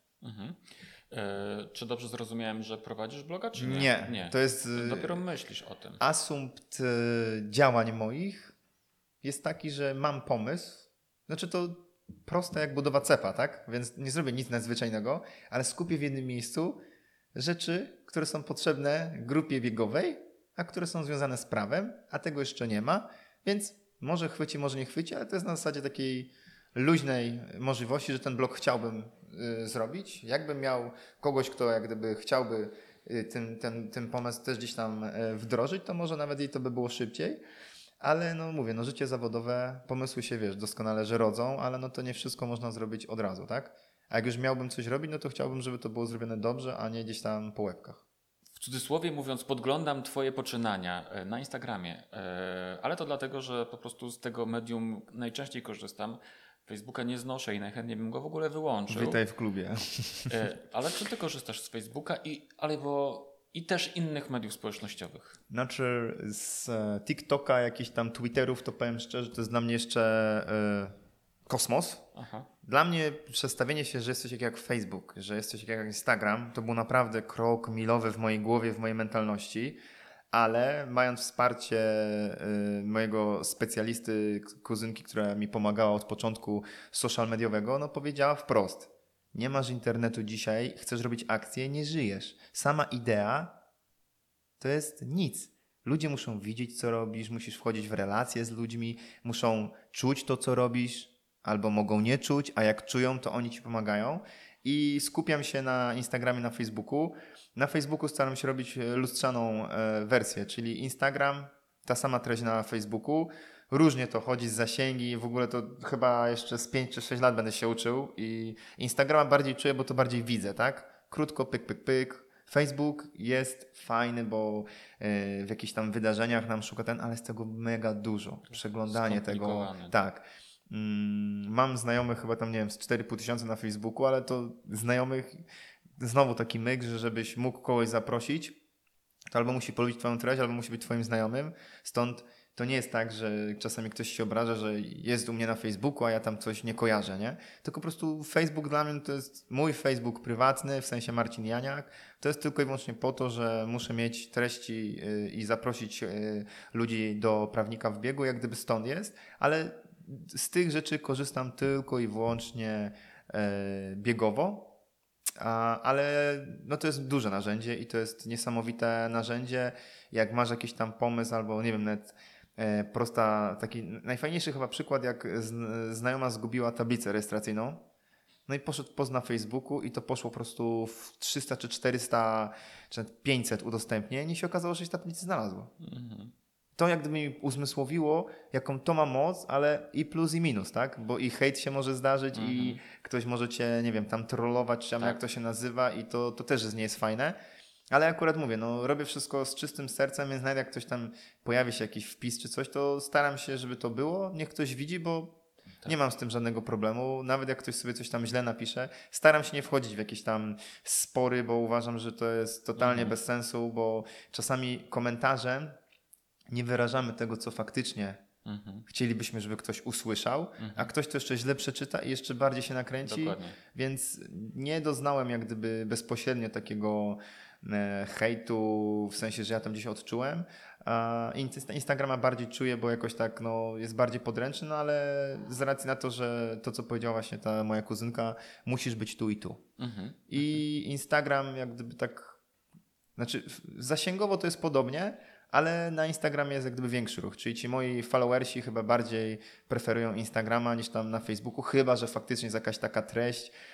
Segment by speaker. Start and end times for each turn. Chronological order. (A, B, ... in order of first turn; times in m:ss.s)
0:00.2-0:06.0 A
0:03.6-0:05.2 B
0:06.0-0:08.5 B
0:09.2-0:16.8 B
0:17.3-0:37.4 B
0:38.0-0:48.0 B
0:48.6-0:59.2 A
0:58.9-1:00.3 B
1:00.3-1:05.4 A
1:05.5-1:10.9 B
1:11.5-1:12.1 B
1:12.1-1:12.5 A
1:12.6-1:19.8 B
1:20.3-1:33.6 B
1:34.6-2:15.4 B
2:08.5-2:10.0 A
2:16.0-2:18.6 B
2:19.3-2:44.7 B
2:45.4-2:57.8 B
2:58.5-3:05.7 B
3:05.8-3:06.3 A
3:06.8-3:17.4 B
3:12.3-3:12.8 A
3:17.9-3:35.8 B
3:32.8-3:33.2 A
3:36.5-3:38.2 B
3:38.4-3:38.8 A
3:38.9-3:59.6 B
3:40.6-3:40.9 A
3:43.0-3:43.6 A
3:59.8-4:00.6 A
4:00.3-4:02.4 B
4:03.2-4:13.5 B